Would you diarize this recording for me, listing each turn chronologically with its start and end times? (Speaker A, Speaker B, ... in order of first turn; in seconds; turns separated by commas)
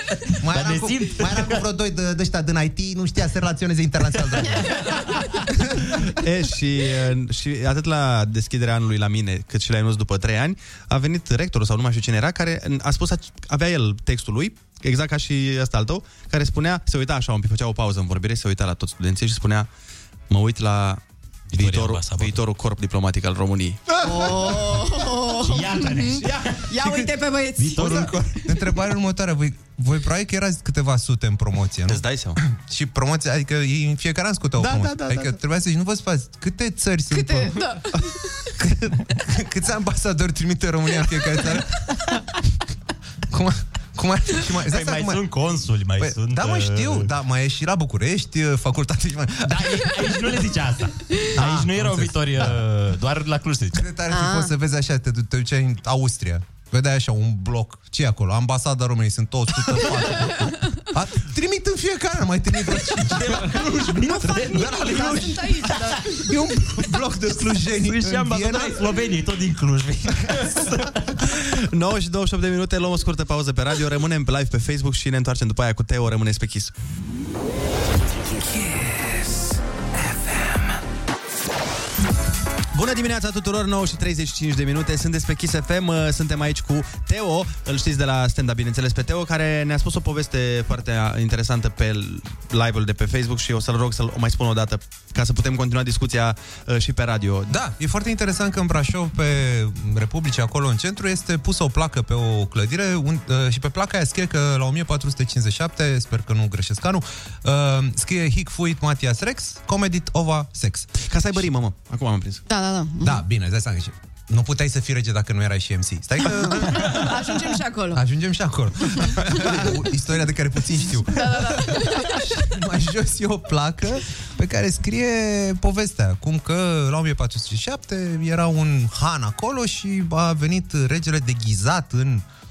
Speaker A: 0.3-1.7, Speaker B: 0.4-4.8, Speaker A: 4.4-5.2, Speaker C: 6.0-19.7, Speaker C: 20.3-23.9, Speaker A: 21.5-22.4, Speaker D: 24.0-28.1, Speaker A: 25.3-27.0, Speaker A: 27.6-28.6, Speaker B: 27.8-37.6, Speaker C: 31.9-32.4, Speaker C: 34.6-35.3, Speaker D: 37.1-38.5, Speaker B: 38.6-41.8, Speaker B: 43.3-45.2, Speaker A: 44.6-47.1, Speaker B: 46.0-49.9, Speaker A: 49.4-53.9, Speaker B: 51.3-52.6, Speaker B: 53.7-63.6, Speaker D: 54.1-54.5, Speaker A: 63.0-66.1, Speaker D: 63.9-66.2, Speaker B: 64.5-68.8, Speaker A: 67.6-71.0, Speaker C: 71.3-76.7, Speaker C: 82.7-97.5, Speaker B: 97.5-110.9, Speaker C: 111.0-112.4, Speaker D: 112.5-113.2, Speaker B: 113.0-117.1, Speaker D: 116.6-118.0, Speaker B: 117.9-132.2, Speaker D: 119.0-119.4, Speaker C: 119.4-119.7, Speaker D: 121.0-122.3